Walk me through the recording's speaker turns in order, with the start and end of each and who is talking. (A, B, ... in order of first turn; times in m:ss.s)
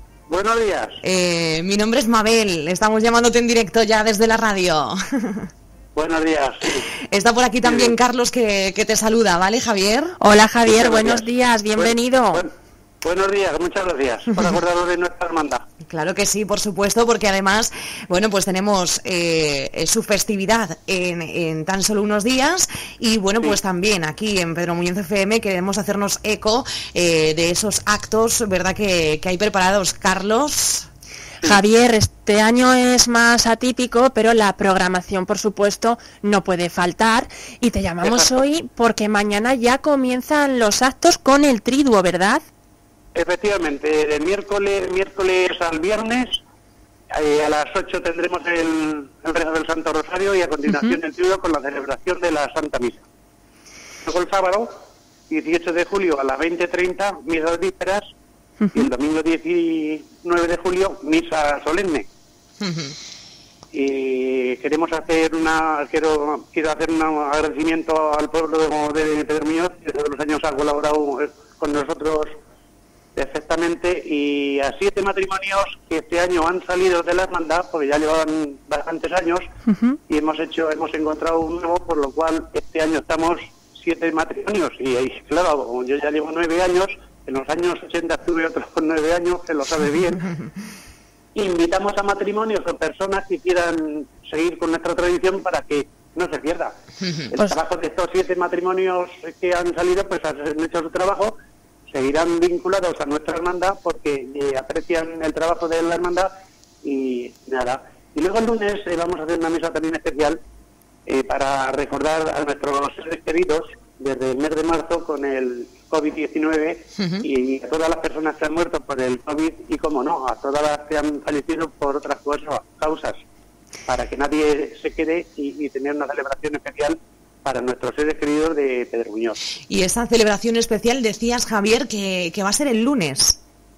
0:00.3-0:01.0 A
0:01.0-0:05.5 B
0:05.9-0:06.9 A
0:07.1-0:10.2 B
0:07.6-0:07.9 A
0:10.2-0:12.4 C
0:10.6-0:12.5 A
0:13.0-0:15.6 A
0:15.9-0:30.9 B
0:31.4-0:42.4 C
0:38.0-0:38.3 A
0:43.1-0:46.4 A
0:47.1-0:53.0 A
0:50.7-0:51.0 C
0:54.0-0:54.7 A
0:55.3-0:58.1 A
0:58.6-0:58.9 C
0:58.7-1:02.1 A
1:02.6-1:02.9 B
1:03.7-1:12.3 A
1:13.2-1:19.4 A
1:19.7-1:20.0 C
1:20.1-1:30.3 A
1:31.3-1:36.7 A
1:37.3-1:41.3 A
1:41.9-1:46.3 A
1:46.8-1:50.4 A
1:51.0-2:03.2 A
1:57.0-1:57.2 B
2:03.9-2:09.4 A
2:09.7-2:13.4 B